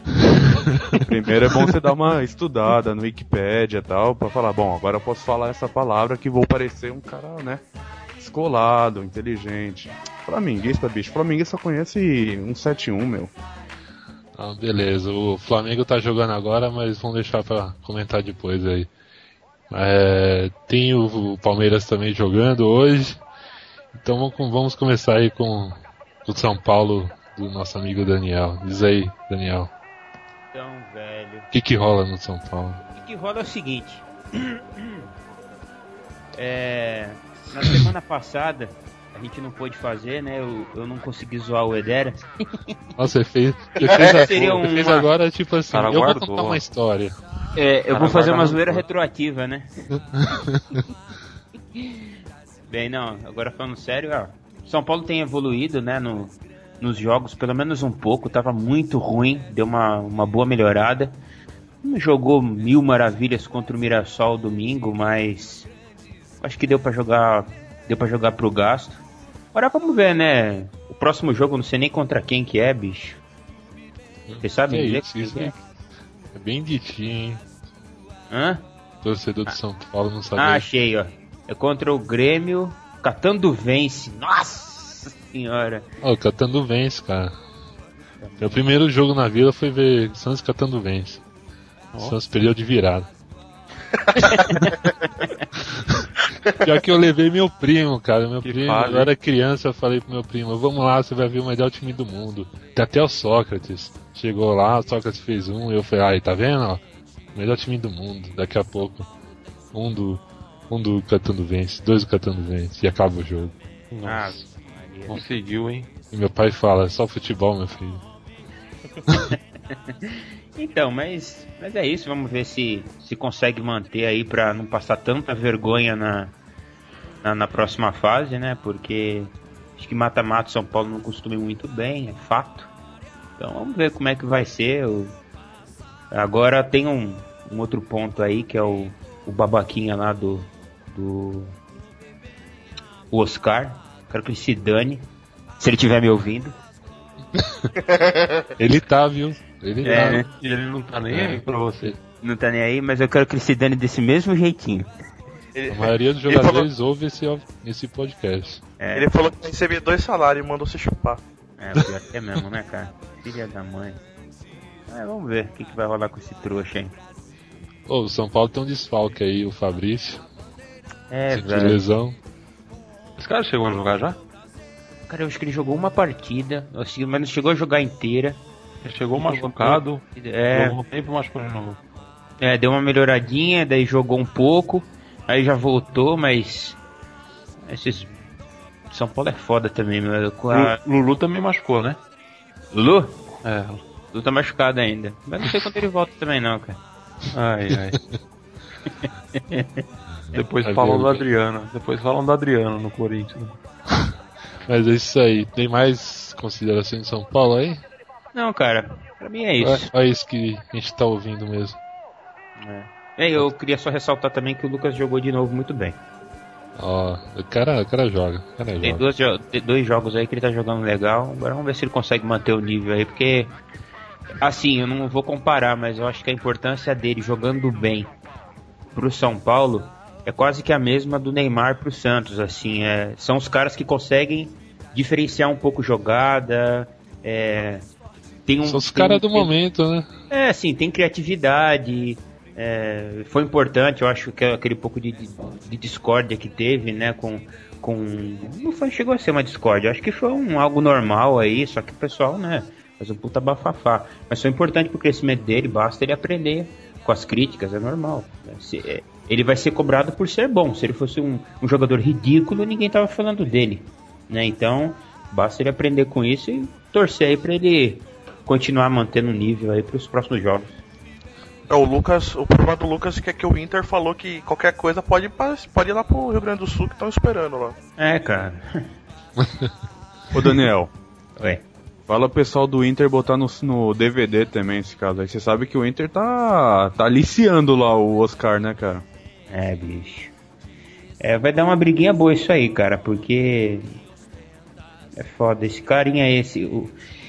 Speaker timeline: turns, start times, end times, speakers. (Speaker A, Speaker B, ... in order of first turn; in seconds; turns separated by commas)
Speaker A: 0.9-7.6, Speaker A: 8.2-13.3, Speaker B: 14.4-18.9, Speaker B: 19.7-23.2, Speaker B: 23.9-29.7, Speaker C: 30.5-31.5, Speaker B: 31.5-32.8, Speaker C: 32.9-35.1, Speaker C: 36.4-42.6, Speaker B: 43.0-47.1, Speaker C: 43.8-45.1, Speaker D: 43.9-44.3, Speaker E: 45.7-46.6, Speaker C: 47.5-49.7, Speaker E: 47.9-48.8, Speaker B: 50.1-50.6, Speaker C: 52.7-61.2, Speaker C: 61.8-65.7, Speaker C: 66.4-69.0, Speaker C: 69.5-73.2, Speaker B: 74.3-75.6, Speaker C: 74.4-75.5, Speaker B: 76.3-77.4, Speaker C: 78.3-78.6, Speaker B: 79.0-80.7, Speaker C: 80.4-85.9, Speaker B: 86.0-87.3, Speaker C: 88.2-88.7, Speaker B: 88.4-91.2, Speaker B: 92.0-93.1, Speaker D: 94.1-94.8, Speaker C: 94.2-94.7, Speaker B: 95.6-106.8, Speaker E: 98.4-99.1, Speaker B: 107.3-109.1, Speaker B: 109.7-113.6, Speaker E: 113.9-114.4, Speaker C: 114.0-115.2, Speaker E: 115.1-115.9, Speaker B: 116.1-118.0, Speaker C: 119.9-126.3, Speaker C: 127.2-132.7, Speaker C: 133.4-135.2, Speaker C: 136.1-141.6, Speaker C: 143.1-145.1, Speaker C: 145.6-146.6, Speaker B: 147.4-147.7, Speaker D: 147.8-148.5, Speaker B: 148.6-150.2, Speaker C: 149.8-150.3, Speaker E: 149.9-152.0, Speaker B: 151.1-152.0, Speaker C: 152.2-154.9, Speaker D: 155.6-156.7, Speaker B: 155.7-158.6, Speaker C: 158.8-159.1, Speaker D: 158.9-161.2, Speaker C: 161.6-164.0, Speaker C: 164.9-167.0, Speaker B: 167.9-170.2, Speaker C: 171.1-171.8, Speaker B: 171.3-172.2, Speaker E: 173.2-174.2, Speaker C: 175.1-178.4, Speaker E: 178.8-181.8, Speaker C: 179.2-180.8, Speaker C: 182.4-186.8, Speaker C: 187.7-188.2, Speaker C: 188.9-190.8, Speaker E: 190.5-192.0, Speaker C: 192.7-193.2, Speaker E: 193.4-193.8, Speaker C: 194.1-196.8, Speaker E: 197.3-198.0, Speaker C: 199.0-199.8, Speaker E: 200.3-203.6, Speaker B: 200.6-201.3, Speaker B: 204.7-207.8, Speaker C: 208.3-209.9, Speaker B: 209.6-211.8, Speaker C: 212.6-216.0, Speaker B: 216.8-219.0, Speaker C: 218.8-223.6, Speaker C: 224.4-228.1, Speaker C: 228.9-237.9, Speaker C: 238.5-239.5, Speaker B: 238.6-240.1, Speaker C: 240.3-270.8, Speaker D: 271.7-277.8, Speaker C: 278.0-278.9, Speaker A: 280.3-280.9, Speaker C: 281.4-281.6, Speaker A: 282.1-289.1, Speaker C: 289.5-290.3, Speaker C: 291.2-294.0, Speaker C: 295.2-297.0